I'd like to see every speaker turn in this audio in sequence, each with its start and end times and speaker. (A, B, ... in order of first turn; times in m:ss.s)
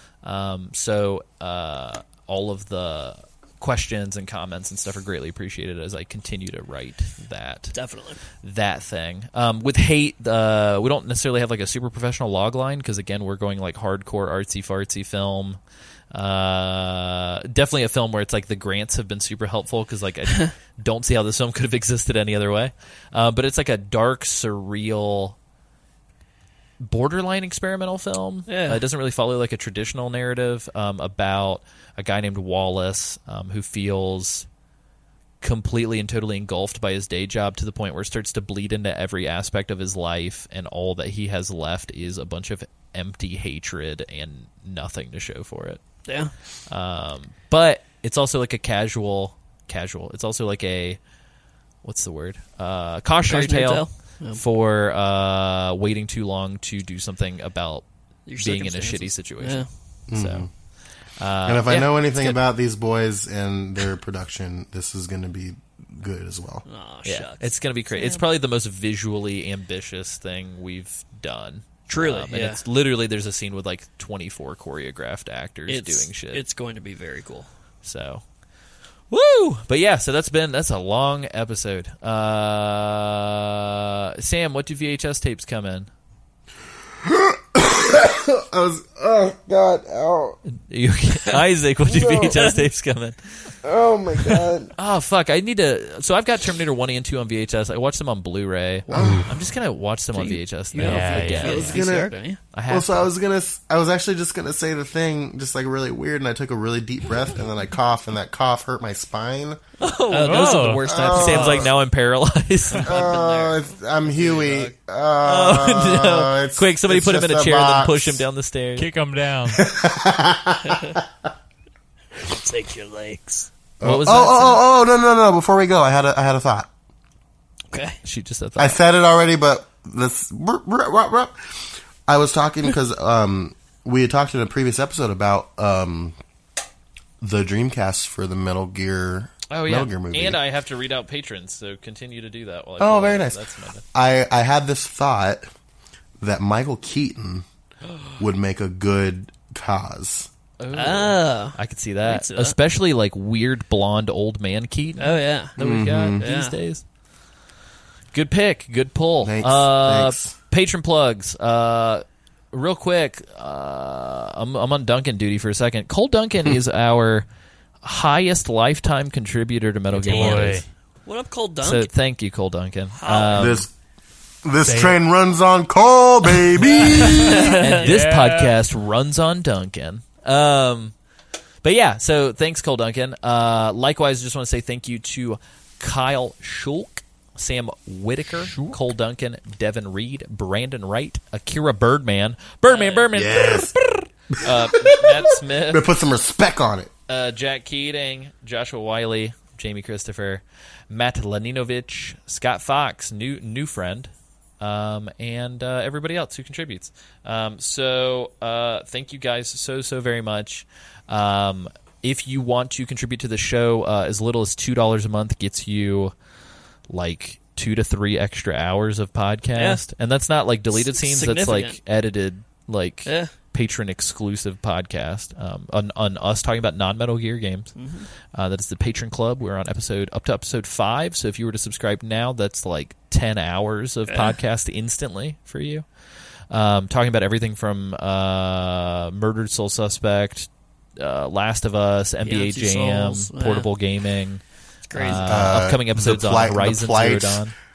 0:00.2-0:07.8 A
0:07.7-0:08.2 B
0:08.3-0:15.6 A
0:16.1-0:25.4 A
0:26.8-0:34.5 A
0:28.5-0:28.8 B
0:35.4-0:45.8 A
0:46.1-0:46.3 B
0:46.7-0:51.0 A
0:51.8-1:02.4 A
0:53.3-0:54.4 B
0:58.3-0:59.7 B
1:00.1-1:00.5 C
1:01.4-1:06.6 C
1:06.6-1:08.2 B
1:07.0-1:16.4 A
1:11.9-1:12.6 B
1:15.7-1:17.5 B
1:17.8-1:18.2 A
1:19.1-1:25.9 A
1:27.0-1:30.4 C
1:30.6-1:33.6 A
1:31.9-1:32.5 C
1:33.6-1:34.7 C
1:34.8-1:41.9 A
1:38.9-1:39.4 C
1:38.9-1:39.4 D
1:40.1-1:42.4 B
1:40.8-1:41.7 D
1:41.4-1:42.1 C
1:42.5-1:43.1 A
1:42.7-1:49.6 C
1:49.8-1:51.7 B
1:50.1-1:53.0 A
1:50.2-1:50.9 D
1:50.8-1:51.7 C
1:52.7-1:54.7 B
1:52.8-1:58.2 C
1:55.2-1:58.9 A
1:58.8-1:59.7 D
1:59.5-2:01.1 C
2:00.6-2:01.0 B
2:02.2-2:03.5 B
2:03.8-2:06.7 C
2:03.8-2:04.6 A
2:07.7-2:08.0 B
2:08.0-2:08.8 A
2:08.6-2:16.2 C
2:17.2-2:20.4 C
2:19.5-2:23.8 A
2:22.8-2:23.4 C
2:23.9-2:25.5 C
2:26.2-2:27.5 C
2:28.2-2:30.3 C
2:30.6-2:36.8 A
2:30.7-2:32.6 B
2:35.0-2:35.5 B
2:35.6-2:36.2 C
2:36.2-2:36.6 B
2:38.1-2:47.3 A
2:39.2-2:40.4 C
2:47.8-2:50.7 A
2:50.0-2:50.6 D
2:50.0-2:51.9 B
2:51.6-2:53.6 A
2:53.0-2:53.6 B
2:53.4-2:53.7 C
2:54.4-2:57.5 C
2:54.6-2:55.0 D
2:56.6-2:58.6 D
2:57.2-2:57.9 B
2:57.5-3:01.0 A
3:01.6-3:15.9 A
3:08.3-3:08.8 D
3:12.7-3:13.1 B
3:13.1-3:13.8 C
3:14.3-3:16.9 C
3:17.1-3:36.2 A
3:36.9-4:07.5 A
3:39.6-3:39.8 B
3:40.7-3:41.8 B
3:43.0-3:43.3 B
3:47.8-3:48.1 B
3:54.1-3:54.4 B
4:02.2-4:03.7 B
4:04.9-4:05.2 B
4:05.2-4:07.4 C